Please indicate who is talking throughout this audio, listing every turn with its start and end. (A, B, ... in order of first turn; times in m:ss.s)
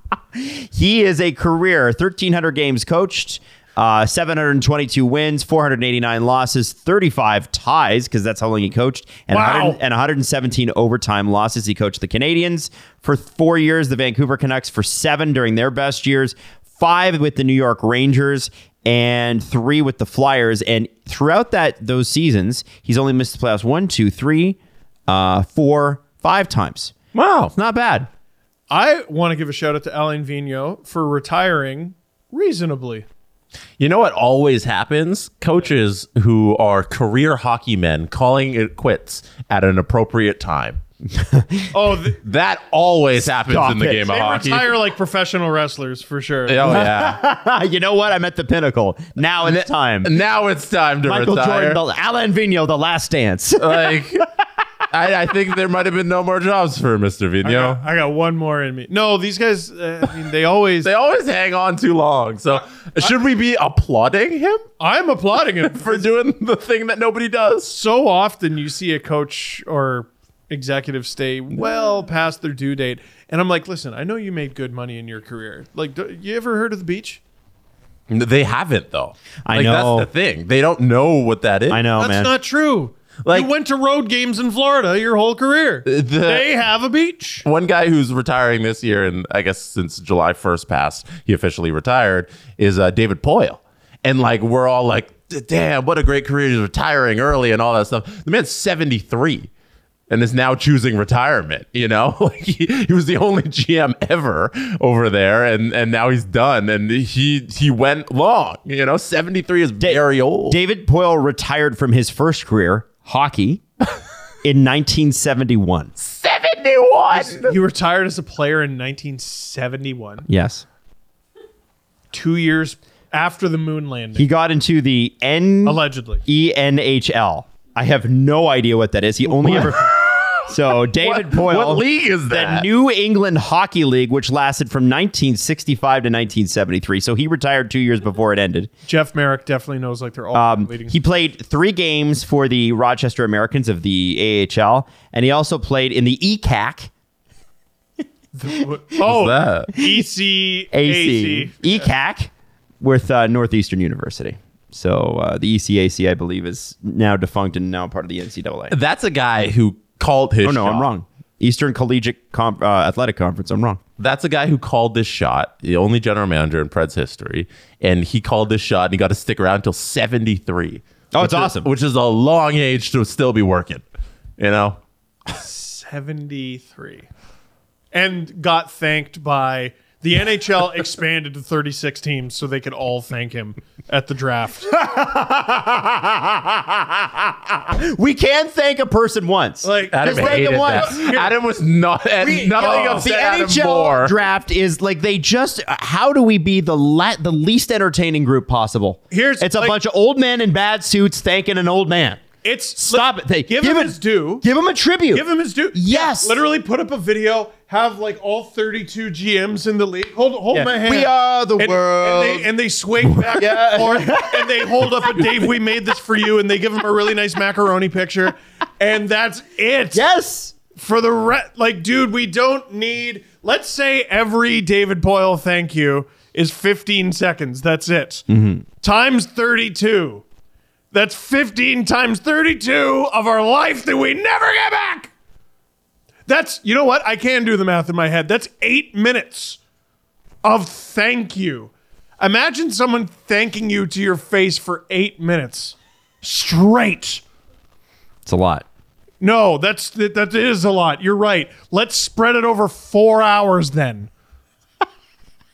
0:00.3-0:26.9 A
0:09.3-0:09.8 B
0:27.1-0:27.5 C
0:27.5-0:28.1 A
0:28.7-0:33.0 B
0:33.8-0:40.8 C
0:41.1-0:41.7 A
0:41.7-0:42.2 B
0:42.2-0:44.7 C
0:43.2-0:44.1 A
0:44.1-0:46.8 B
0:46.5-0:47.2 C
0:46.6-0:50.1 A
0:50.0-0:51.8 C
0:51.0-0:54.2 A
0:53.6-0:54.3 C
0:54.9-0:57.8 C
0:57.4-1:00.9 B
1:00.8-1:04.6 C
1:04.8-1:06.1 B
1:05.6-1:07.7 C
1:07.7-1:17.2 B
1:18.1-1:21.8 C
1:19.4-1:20.1 A
1:21.7-1:22.3 A
1:22.0-1:27.4 B
1:25.8-1:26.5 C
1:27.4-1:39.5 C
1:40.1-1:50.6 C
1:49.8-1:53.6 A
1:54.4-1:55.9 A
1:56.0-1:57.6 C
1:57.1-2:00.2 B
2:00.2-2:00.6 A
2:02.1-2:04.3 B
2:04.2-2:09.9 A
2:05.6-2:06.2 B
2:09.3-2:09.8 B
2:09.6-2:12.7 C
2:10.5-2:18.7 A
2:18.8-2:20.9 B
2:20.3-2:26.9 A
2:28.3-2:31.8 B
2:29.0-2:29.7 C
2:30.7-2:38.7 A
2:38.7-2:40.9 C
2:40.4-2:43.8 A
2:44.0-2:53.8 C
2:51.1-2:51.7 A
2:54.4-2:54.8 C
2:55.3-2:57.1 B
2:57.9-3:04.7 B
3:04.7-3:11.0 A
3:09.6-3:11.3 B
3:09.9-3:14.1 C
3:12.2-3:22.2 A
3:12.6-3:13.0 B
3:19.1-3:19.8 B
3:22.4-3:24.4 B
3:22.8-3:26.4 A
3:25.1-3:40.0 B
3:30.5-3:32.5 A
3:33.0-3:34.9 A
3:39.9-3:40.5 A
3:40.7-3:48.3 B
3:48.3-3:48.6 A
3:48.8-3:50.2 B
3:50.9-3:55.1 B
3:56.3-3:59.6 B
4:00.4-4:07.2 B
4:08.2-4:08.6 A
4:09.2-4:14.1 B